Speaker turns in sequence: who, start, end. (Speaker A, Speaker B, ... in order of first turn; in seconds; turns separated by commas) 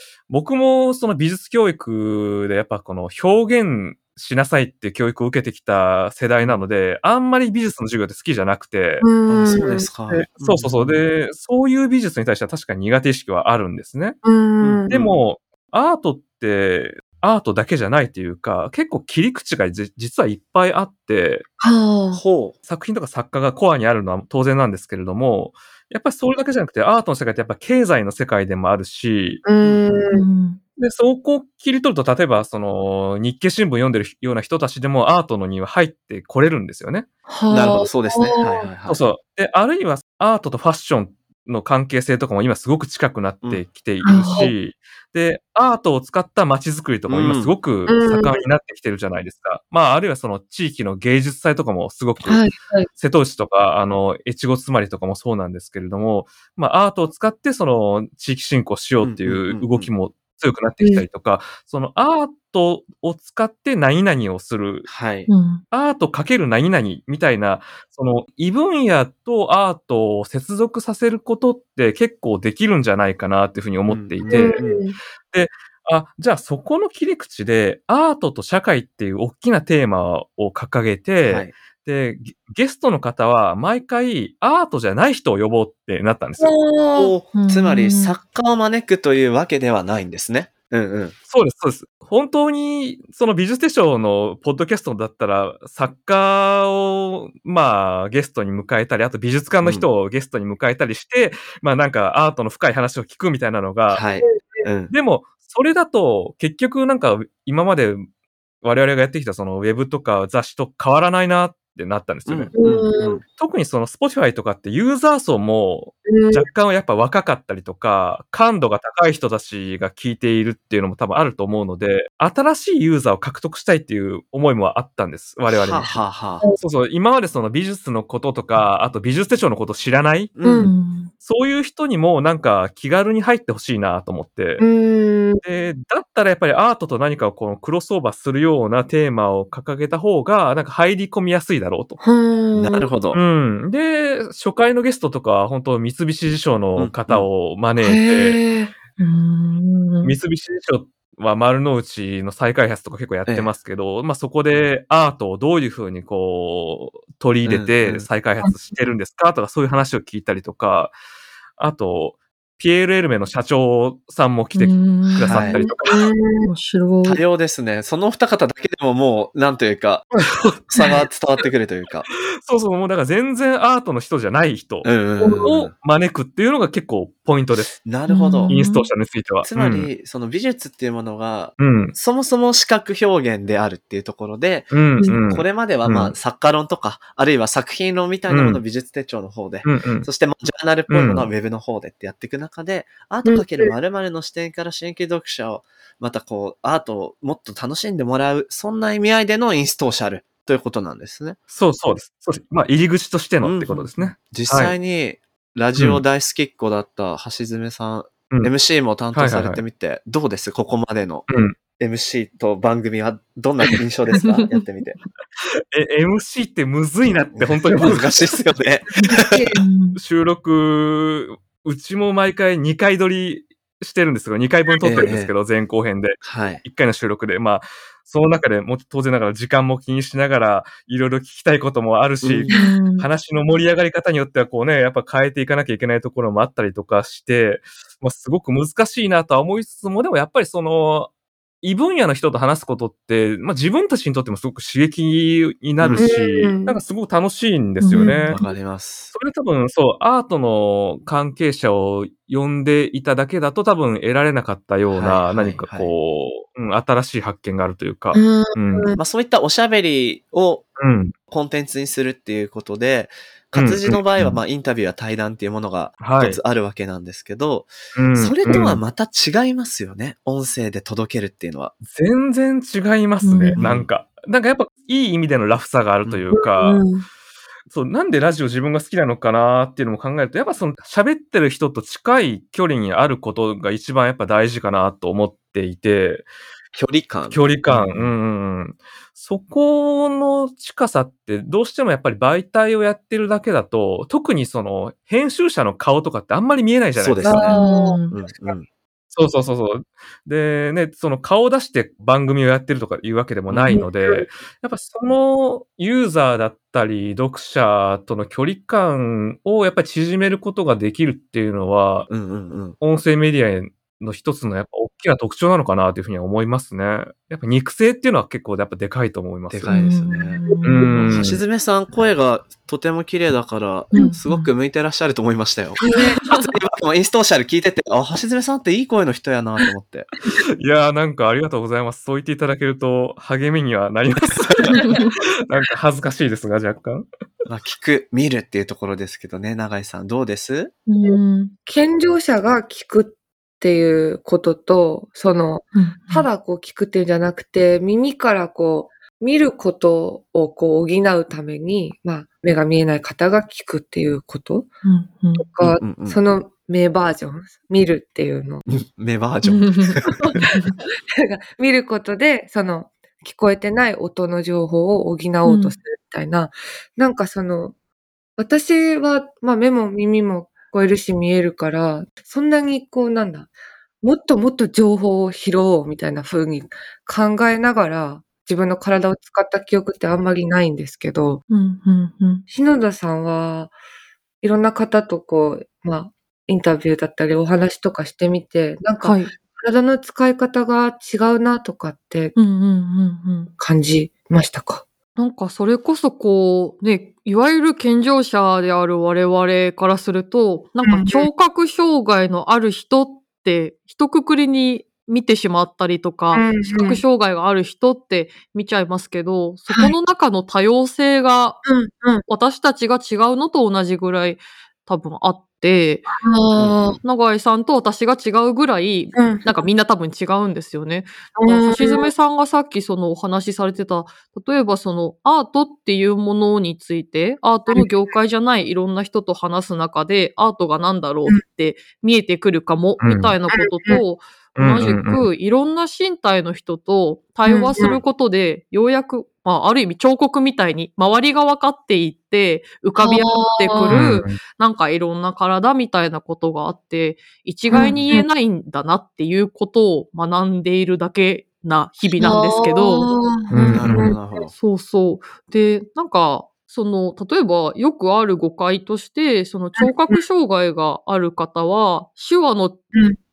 Speaker A: 0.3-9.1, Speaker B: 9.0-10.2, Speaker C: 9.3-11.0, Speaker A: 10.1-14.2, Speaker B: 14.2-14.9, Speaker C: 14.6-15.2, Speaker A: 14.9-21.4, Speaker B: 21.6-22.2, Speaker C: 22.1-22.6, Speaker A: 22.6-29.4, Speaker B: 29.4-30.2, Speaker C: 29.6-30.0, Speaker D: 30.1-30.6, Speaker A: 30.8-37.0, Speaker B: 37.3-38.6, Speaker C: 37.5-39.0, Speaker A: 38.9-64.9, Speaker B: 44.0-44.5, Speaker C: 47.1-47.5, Speaker B: 47.9-48.4, Speaker B: 52.2-52.9, Speaker C: 59.0-59.9, Speaker C: 64.9-65.3, Speaker D: 65.3-65.6, Speaker A: 65.7-74.7, Speaker C: 73.9-74.8, Speaker B: 74.3-75.0, Speaker A: 75.3-86.5, Speaker C: 81.3-81.5, Speaker B: 86.4-87.1, Speaker C: 87.0-91.2, Speaker D: 87.3-88.2, Speaker A: 91.3-104.0, Speaker C: 99.6-99.9, Speaker C: 103.9-104.9, Speaker B: 104.2-104.6, Speaker A: 104.9-108.0, Speaker A: 108.6-112.5, Speaker C: 112.3-113.2, Speaker B: 112.6-113.2, Speaker A: 113.2-126.0, Speaker B: 116.1-116.5, Speaker C: 125.5-126.5, Speaker A: 126.6-130.3, Speaker C: 130.3-130.7, Speaker B: 130.4-130.7, Speaker D: 130.6-131.1, Speaker A: 131.1-134.7, Speaker B: 134.6-135.4, Speaker A: 135.4-142.0, Speaker B: 142.0-142.9, Speaker C: 142.5-143.2, Speaker A: 143.1-148.4, Speaker C: 146.8-147.3, Speaker B: 147.8-148.7, Speaker D: 149.0-150.2, Speaker A: 150.0-160.9, Speaker C: 157.4-158.1, Speaker A: 161.6-166.1, Speaker D: 164.5-167.2, Speaker C: 165.3-165.6, Speaker B: 165.6-166.5, Speaker C: 167.0-172.1, Speaker A: 172.4-177.8, Speaker C: 174.8-175.7, Speaker C: 177.7-178.5, Speaker D: 178.1-178.9, Speaker A: 178.5-179.9, Speaker C: 179.4-201.4, Speaker A: 181.6-181.9, Speaker A: 184.7-186.1, Speaker A: 188.3-188.6, Speaker A: 189.6-190.1, Speaker A: 190.9-191.3, Speaker B: 193.2-193.7, Speaker A: 201.5-204.7, Speaker C: 203.4-215.0, Speaker A: 205.8-206.0, Speaker A: 209.1-209.6, Speaker A: 211.3-211.6, Speaker A: 215.7-218.4, Speaker C: 217.3-219.5, Speaker D: 218.9-220.0, Speaker B: 219.1-219.6, Speaker A: 219.9-241.1, Speaker C: 224.8-225.3, Speaker C: 226.2-226.6, Speaker C: 232.2-232.5, Speaker D: 232.5-233.1, Speaker A: 241.6-248.4, Speaker C: 245.8-246.1, Speaker B: 246.0-246.8, Speaker D: 247.8-248.2, Speaker B: 248.0-248.5, Speaker C: 248.3-249.1, Speaker A: 249.1-258.9, Speaker C: 254.9-255.9, Speaker B: 258.1-259.0, Speaker C: 259.0-260.7, Speaker A: 260.8-261.1, Speaker C: 261.3-271.7, Speaker A: 263.5-264.4, Speaker A: 266.0-266.4, Speaker A: 267.9-268.8, Speaker A: 271.8-276.9, Speaker D: 273.2-273.6, Speaker C: 273.6-273.9, Speaker B: 276.3-277.1, Speaker A: 277.7-286.2, Speaker C: 286.7-288.1, Speaker A: 287.3-297.6, Speaker C: 296.9-297.6, Speaker B: 297.2-298.0, Speaker D: 297.5-298.1, Speaker C: 298.1-298.7, Speaker A: 299.1-312.1, Speaker C: 303.5-303.8, Speaker B: 303.7-304.2, Speaker C: 312.1-312.8, Speaker A: 312.8-319.7, Speaker C: 319.5-320.4, Speaker D: 319.7-321.2, Speaker B: 320.4-321.0, Speaker A: 320.6-321.4, Speaker C: 321.1-330.1, Speaker D: 323.9-324.5, Speaker B: 325.8-326.2, Speaker A: 330.6-337.1, Speaker C: 334.2-334.7, Speaker D: 334.7-335.1, Speaker C: 337.4-340.7, Speaker D: 340.9-341.5, Speaker B: 341.0-354.7, Speaker D: 345.7-346.3, Speaker D: 354.8-355.4, Speaker B: 355.4-358.6, Speaker C: 355.6-356.2, Speaker C: 358.7-360.6, Speaker D: 359.4-360.7, Speaker B: 361.2-367.7, Speaker D: 365.4-365.7, Speaker B: 368.4-373.5, Speaker B: 374.0-381.4, Speaker D: 381.5-382.4, Speaker B: 382.5-383.7, Speaker B: 384.4-392.3, Speaker D: 389.0-389.3, Speaker D: 392.4-393.5, Speaker B: 393.6-394.8, Speaker D: 395.2-411.6, Speaker B: 400.8-401.3, Speaker B: 406.3-407.0, Speaker B: 411.6-412.2, Speaker D: 412.3-416.2, Speaker B: 416.2-417.0, Speaker C: 416.5-417.0, Speaker D: 417.0-453.9, Speaker B: 419.1-419.6, Speaker B: 421.4-422.1, Speaker A: 433.0-433.3, Speaker B: 433.5-434.0, Speaker A: 434.6-435.3, Speaker B: 437.4-438.0, Speaker B: 443.0-444.0, Speaker A: 443.9-444.4, Speaker B: 447.7-448.2, Speaker A: 447.8-448.1, Speaker C: 447.8-448.1, Speaker B: 452.2-454.2, Speaker A: 453.5-454.1, Speaker C: 453.7-454.5, Speaker D: 454.5-462.8, Speaker B: 459.8-460.2